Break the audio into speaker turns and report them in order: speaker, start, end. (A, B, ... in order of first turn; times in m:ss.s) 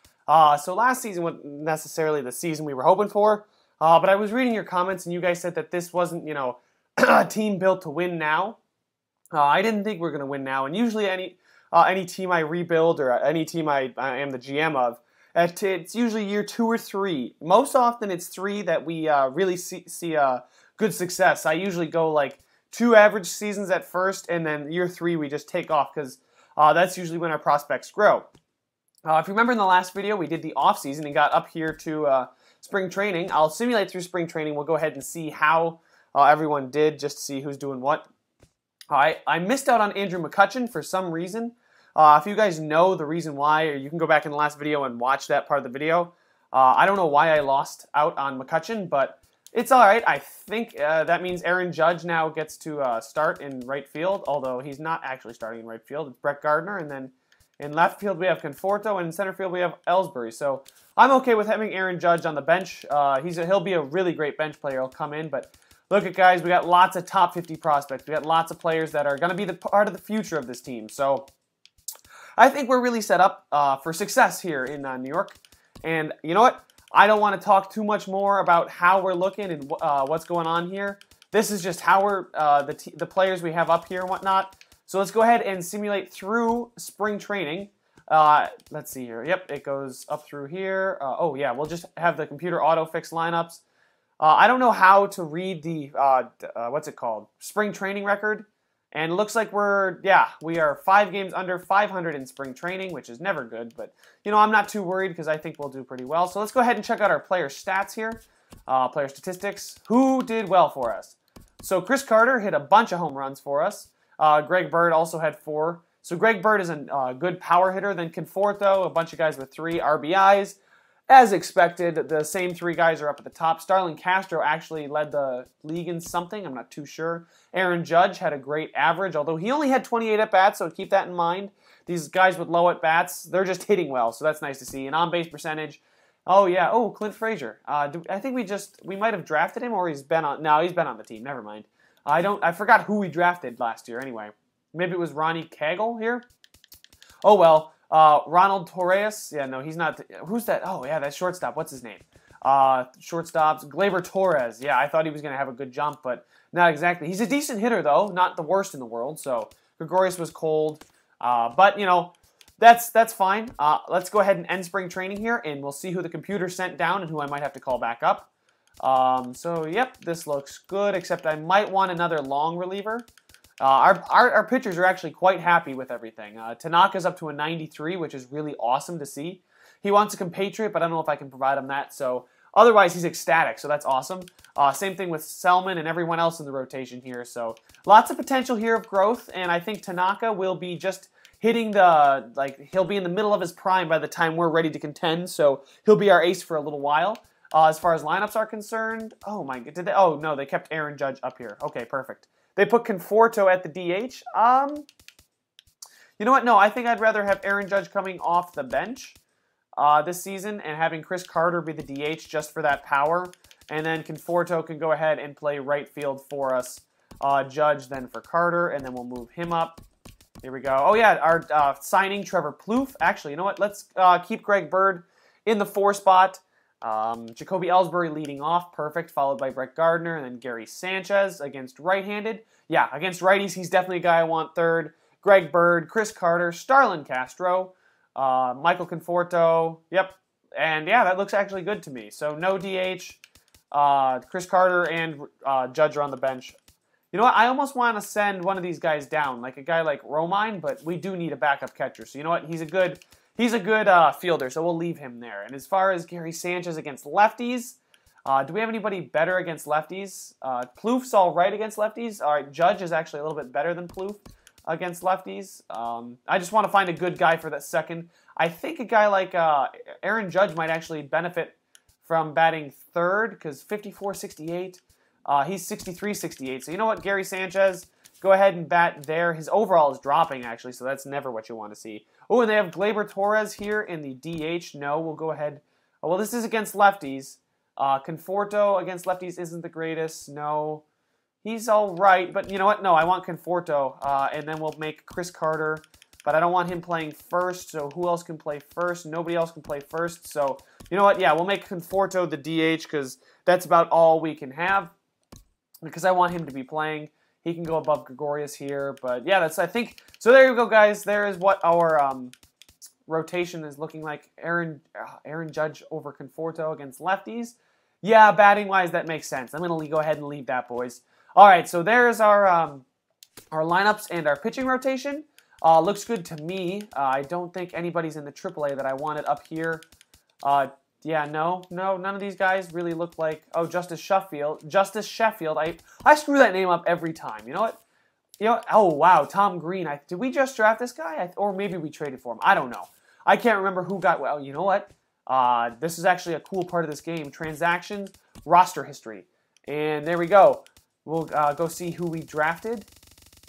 0:00.3-0:08.6 A
0:09.3-0:28.3 A
0:29.0-0:38.0 A
0:38.9-1:11.3 A
1:12.4-1:33.6 A
1:34.2-2:00.6 A
2:01.1-2:26.2 A
2:27.2-2:48.3 A
2:48.8-2:53.1 A
2:53.6-3:24.9 A
3:26.2-3:29.2 A
3:29.8-3:39.8 A
3:40.4-4:03.2 A
4:03.7-4:06.6 A
4:07.1-4:50.8 A
4:51.4-5:04.9 A
5:05.8-5:12.3 A
5:13.1-5:22.8 A
5:23.5-5:29.8 A
5:30.4-5:37.8 A
5:38.4-5:52.9 A